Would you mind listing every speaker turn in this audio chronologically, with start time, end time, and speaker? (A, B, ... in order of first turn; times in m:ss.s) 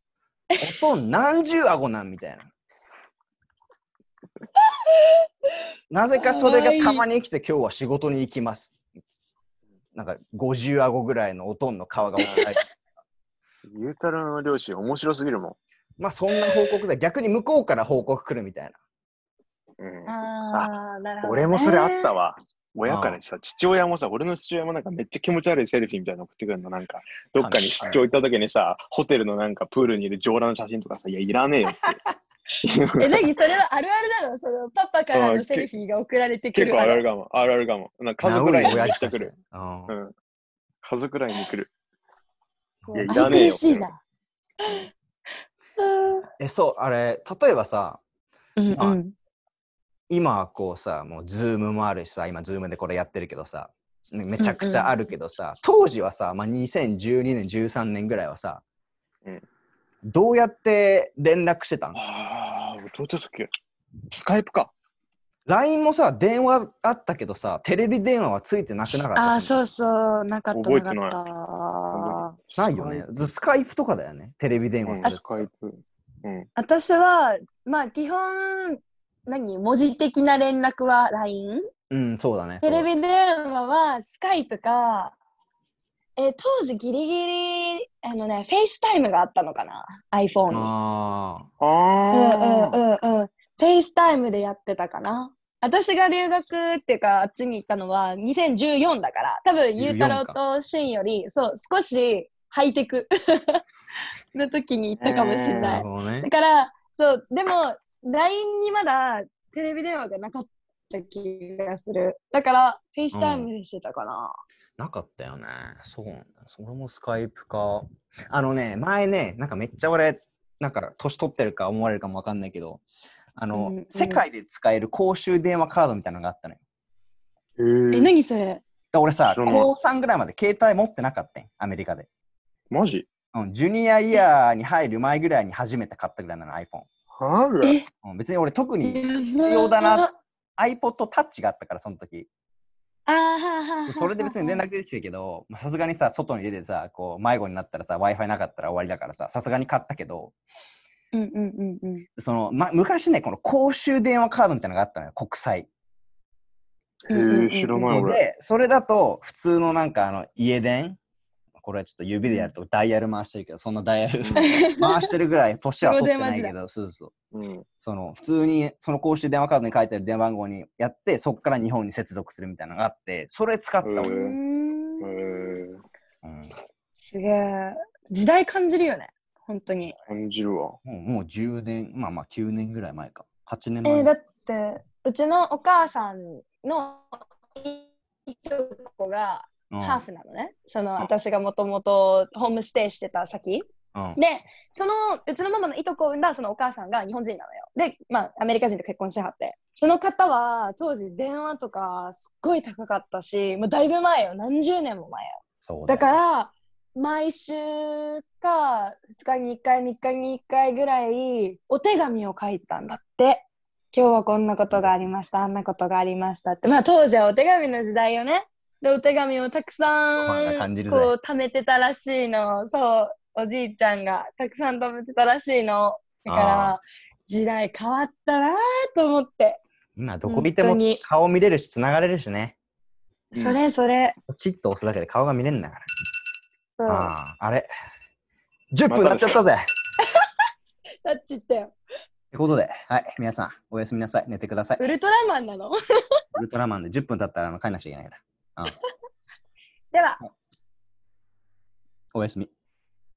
0:00.6-0:02.5 A
0:04.6-0:05.0 B
0:05.9-0:08.8 A
0:06.1-0:07.0 B
0:09.9-0:12.6 A
0:12.2-0:12.5 C
0:13.6-0:15.6 C
0:16.0-0:18.8 A
0:19.8-0:20.7 C
0:20.1-0:22.1 B
0:21.2-0:32.0 C
0:22.8-0:23.2 A
0:27.4-0:28.0 A
0:32.6-0:33.3 C
0:33.0-0:37.0 B
0:35.1-0:35.7 C
0:36.5-0:39.3 C
0:38.2-0:39.9 A
0:40.8-0:41.7 C
0:42.8-0:43.6 A
0:42.9-0:43.9 C
0:43.0-0:44.0 B
0:45.8-0:46.3 B
0:46.4-0:48.0 A
0:48.6-0:49.1 B
0:48.7-0:49.0 A
0:50.1-0:58.6 A
0:54.4-0:55.0 B
1:00.1-1:02.0 A
1:01.9-1:03.5 C
1:04.1-1:04.7 C
1:05.5-1:09.6 A
1:09.1-1:12.4 B
1:10.5-1:11.2 C
1:11.9-1:13.0 C
1:12.6-1:15.5 A
1:14.8-1:16.5 C
1:16.6-1:21.6 B
1:21.9-1:22.9 A
1:22.6-1:25.1 B
1:26.2-1:30.7 B
1:30.5-1:31.5 A
1:31.6-1:32.8 C
1:32.1-1:43.6 B
1:39.8-1:40.4 A
1:44.3-1:54.3 B
1:45.0-1:45.8 C
1:45.6-1:46.3 A
1:53.1-1:53.5 A
1:54.8-2:02.8 A
2:03.4-2:06.6 A
2:03.5-2:04.2 B
2:07.6-2:08.1 C
2:07.9-2:08.6 B
2:08.9-2:12.1 A
2:09.3-2:09.7 C
2:12.7-2:13.0 C
2:13.3-2:16.9 A
2:17.2-2:17.8 C
2:18.0-2:22.3 A
2:18.8-2:20.1 B
2:23.1-2:24.6 B
2:23.9-2:30.3 A
2:31.1-2:32.0 B
2:32.2-2:35.7 A
2:37.1-2:38.2 C
2:37.1-2:37.8 B
2:37.7-2:41.0 A
2:41.6-2:47.1 A
2:44.2-2:44.5 C
2:44.4-2:44.9 B
2:45.8-2:46.5 B
2:47.3-2:47.6 C
2:47.8-2:54.1 A
2:53.8-2:54.4 C
2:54.0-2:55.2 B
2:55.0-2:55.8 C
2:56.2-2:56.5 A
2:56.9-2:59.9 B
3:00.1-3:00.8 C
3:00.8-3:04.1 A
3:03.8-3:13.6 B
3:09.7-3:10.0 A
3:13.9-3:14.2 A
3:14.2-3:49.6 B
3:25.7-3:26.1 A
3:40.2-3:41.1 A
3:46.3-3:46.8 A
3:50.0-3:52.6 A
3:50.2-3:51.0 B
3:53.3-3:53.6 C
3:53.3-3:54.2 B
3:54.3-3:55.8 A
3:56.8-3:57.1 B
3:56.9-3:57.7 A
3:58.7-3:59.6 A
3:58.9-3:59.4 C
4:01.0-4:01.7 B
4:02.3-4:04.8 A
4:04.8-4:05.8 B
4:06.4-4:08.7 A
4:09.9-4:10.2 B
4:12.1-4:12.5 A